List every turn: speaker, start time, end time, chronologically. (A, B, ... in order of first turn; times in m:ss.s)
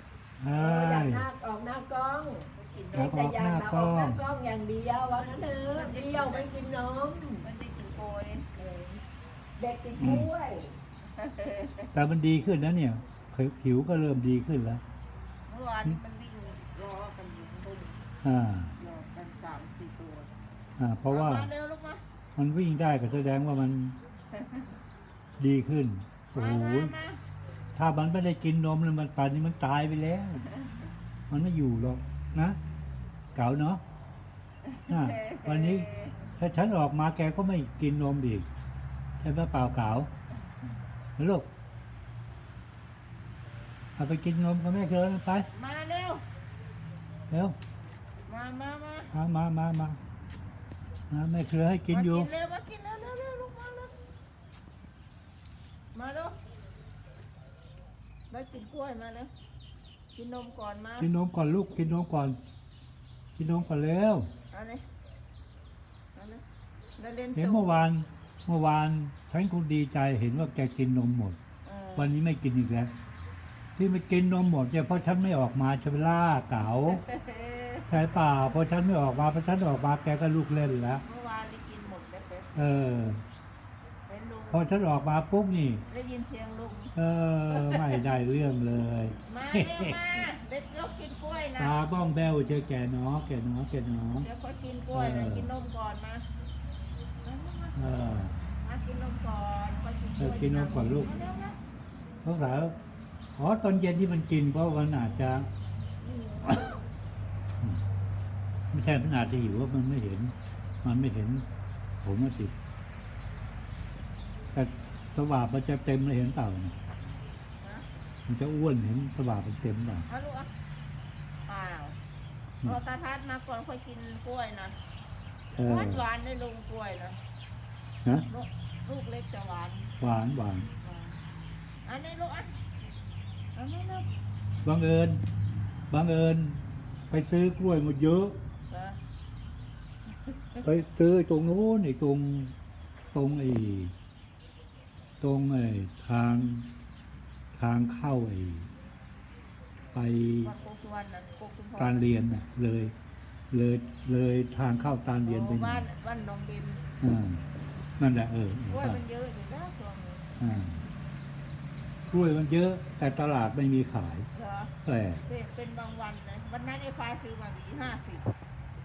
0:00.4-0:01.3 A
0:00.6-0:07.4 B
0:02.6-0:03.1 C
0:02.9-0:04.2 A
0:05.6-0:06.5 C
0:07.4-0:08.5 C
0:08.6-0:09.0 B
0:09.6-0:10.7 B
0:10.0-0:10.3 A
0:11.1-0:11.9 C
0:11.9-0:14.8 A
0:15.5-0:18.0 C
0:18.2-0:18.7 A
0:18.8-0:20.3 C
0:20.8-0:21.5 A
0:21.1-0:22.0 C
0:22.4-0:24.0 A
0:24.3-0:24.7 C
0:25.4-0:26.9 A
0:26.3-0:27.2 C
0:27.8-0:30.4 A
0:30.5-0:30.9 C
0:31.3-0:32.6 A
0:33.3-0:33.8 A
0:34.6-0:36.2 C
0:34.9-0:38.5 A
0:39.2-0:40.1 A
0:41.2-0:41.4 A
0:44.0-0:45.5 A
0:45.5-0:46.2 C
0:47.3-0:47.6 A
0:48.3-0:49.1 C
0:49.1-0:50.0 A
0:51.1-0:52.3 A
0:51.9-0:53.9 C
0:55.9-0:56.4 C
0:58.3-0:59.3 C
1:00.2-1:01.1 C
1:01.0-1:02.4 A
1:03.4-1:04.3 A
1:04.5-1:04.8 C
1:06.2-1:06.4 C
1:07.0-1:07.7 C
1:07.4-1:11.4 A
1:11.6-1:12.2 C
1:12.0-1:12.9 A
1:13.8-1:17.0 A
1:16.9-1:17.9 C
1:17.9-1:21.0 A
1:21.0-1:22.7 C
1:22.6-1:23.2 A
1:24.1-1:24.7 C
1:24.5-1:25.8 A
1:25.9-1:26.9 C
1:27.0-1:30.1 A
1:27.5-1:28.0 C
1:29.3-1:31.8 C
1:31.6-1:34.3 A
1:34.2-1:36.2 C
1:34.9-1:35.5 A
1:37.2-1:41.6 C
1:37.8-1:38.4 A
1:40.2-1:41.1 A
1:42.2-1:42.8 A
1:43.4-1:45.5 A
1:46.0-1:46.6 C
1:48.7-1:51.5 A
1:52.0-1:52.5 A
1:54.5-1:56.8 A
1:57.6-1:57.9 C
1:58.3-2:00.1 A
2:00.1-2:00.5 C
2:01.5-2:02.0 C
2:02.6-2:04.8 C
2:05.5-2:06.0 A
2:05.6-2:07.2 C
2:08.3-2:09.9 C
2:10.0-2:10.7 A
2:10.8-2:11.2 C
2:11.8-2:12.5 C
2:13.6-2:14.1 C
2:14.6-2:15.2 A
2:15.9-2:18.4 A
2:18.7-2:19.0 C
2:20.3-2:20.6 C
2:20.6-2:22.5 A
2:23.1-2:23.9 A
2:25.2-2:26.7 A
2:27.5-2:28.7 A
2:29.9-2:30.5 A
2:30.4-2:32.1 C
2:31.8-2:32.9 A
2:33.5-2:35.9 A
2:35.2-2:36.8 C
2:37.0-2:37.4 A
2:38.0-2:39.0 A
2:38.7-2:40.3 C
2:40.4-2:40.9 A
2:42.1-2:44.3 A
2:44.3-2:48.3 C
2:44.8-2:45.2 A